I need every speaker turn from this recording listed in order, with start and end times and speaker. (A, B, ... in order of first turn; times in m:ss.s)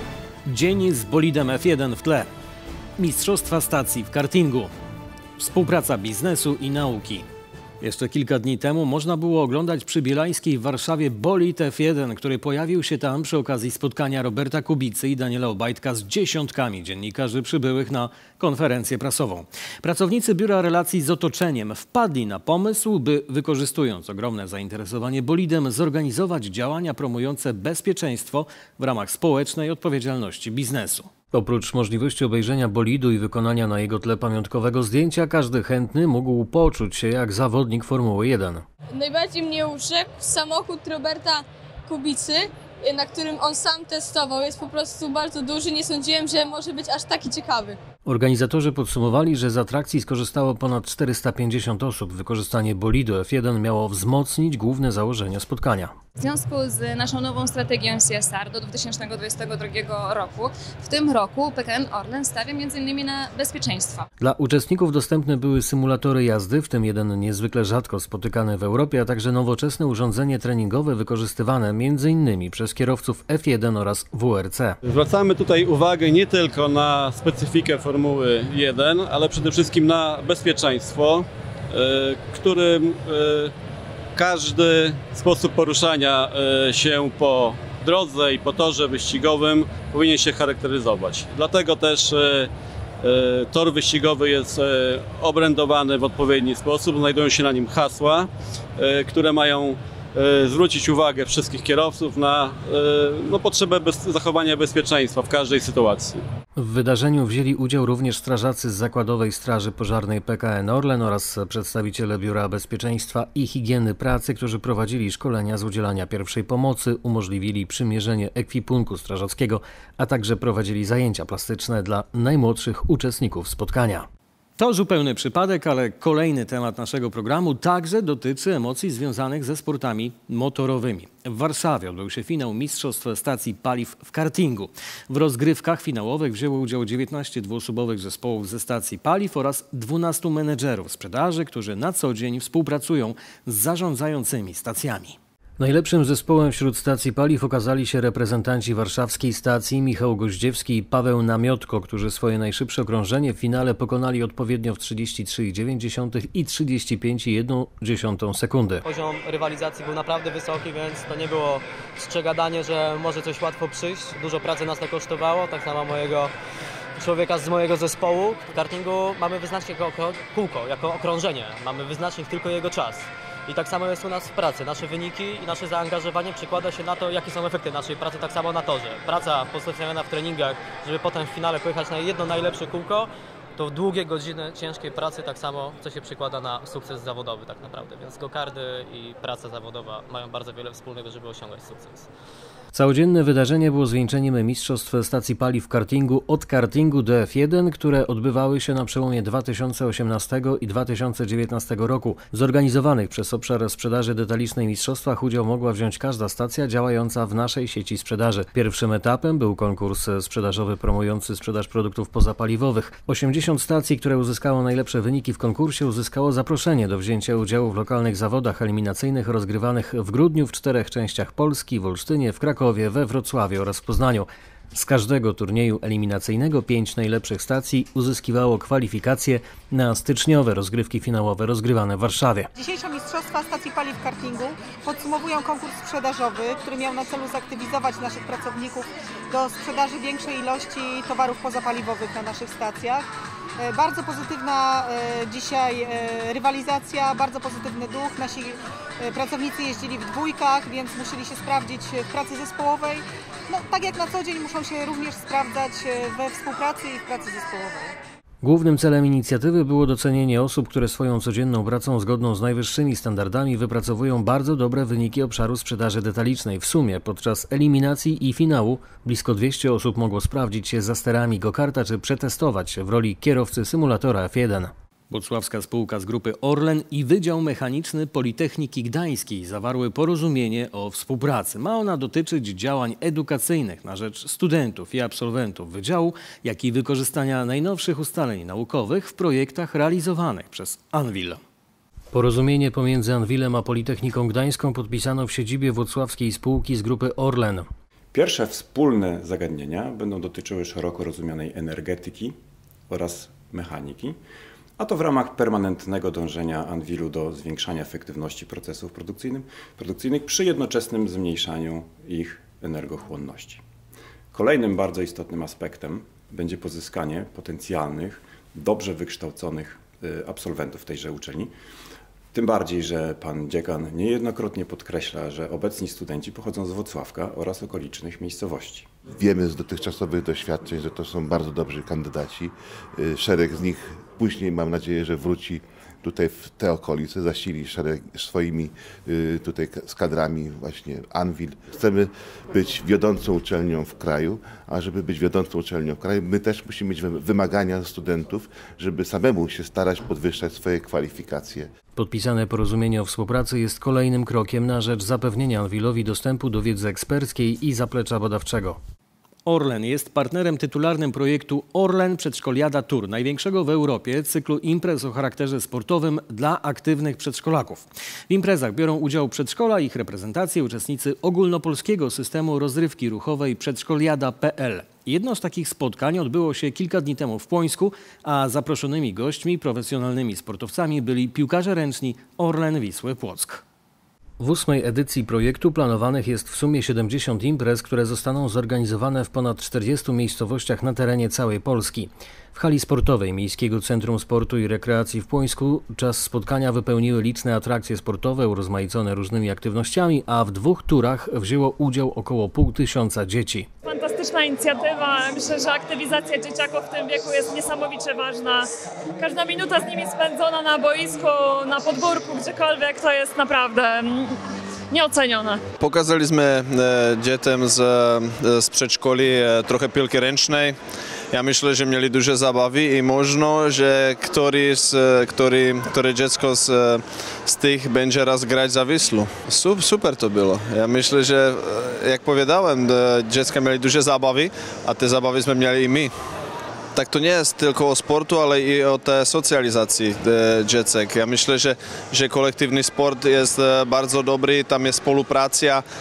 0:00.4-0:02.3 A
0:03.0-0:04.7 A
0:05.4-0:07.2 A
0:07.8-0:38.6 A
0:39.0-0:47.7 B
0:48.0-0:55.9 A
0:56.2-1:04.0 C
1:04.2-1:14.8 A
1:14.8-1:23.5 D
1:24.2-1:32.5 D
1:33.0-1:46.2 D
1:46.6-2:04.0 A
2:04.6-2:38.8 A
2:38.8-2:46.3 E
2:47.0-3:12.1 E
3:12.7-3:52.5 A
3:52.6-4:03.0 F
4:03.6-4:17.9 F
4:18.4-4:51.4 A
4:52.1-4:57.7 A
4:58.1-5:02.4 G
5:02.9-5:04.2 G
5:04.8-5:13.6 G
5:14.3-5:21.5 G
5:22.3-5:28.9 G
5:29.2-5:51.7 H
5:52.0-5:58.8 A
5:59.4-6:23.6 A
6:24.4-6:43.7 A
6:43.8-6:54.4 I
6:54.9-6:55.6 I
6:55.8-7:00.8 J
7:01.3-7:16.1 J
7:16.9-7:25.8 J